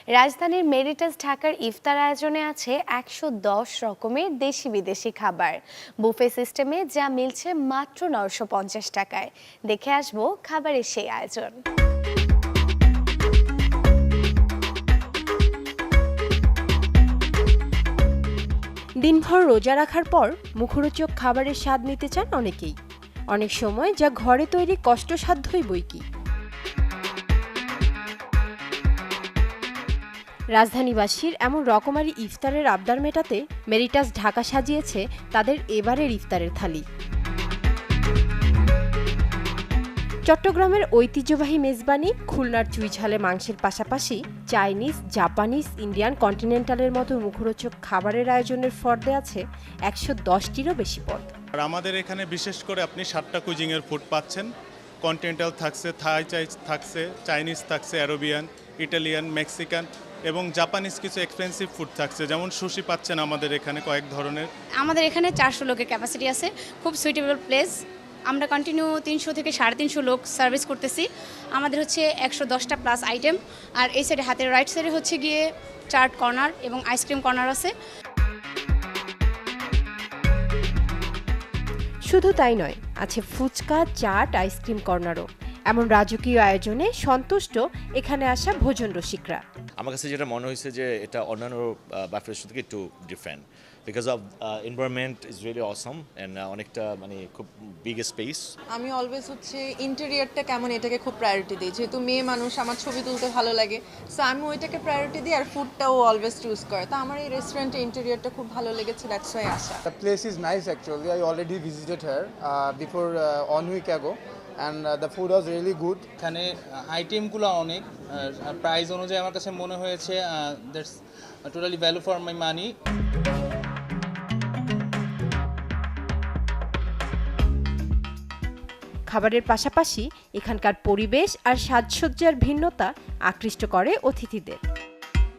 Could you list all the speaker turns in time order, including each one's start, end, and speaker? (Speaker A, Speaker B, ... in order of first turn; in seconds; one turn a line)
Speaker A: 0.2-11.6
Speaker B: 19.0-22.8
Speaker B: 23.3-26.0
Speaker B: 30.6-36.8
Speaker B: 40.3-51.3
Speaker C: 51.6-54.5
Speaker C: 55.0-64.5
Speaker D: 64.8-77.7
Speaker B: 82.1-89.4
Speaker E: 89.8-98.5
Speaker F: 98.7-109.8
Speaker G: 109.9-116.1
Speaker H: 117.0-118.0
Speaker H: 118.6-120.9
Speaker H: 121.5-122.6
Speaker B: 129.1-134.6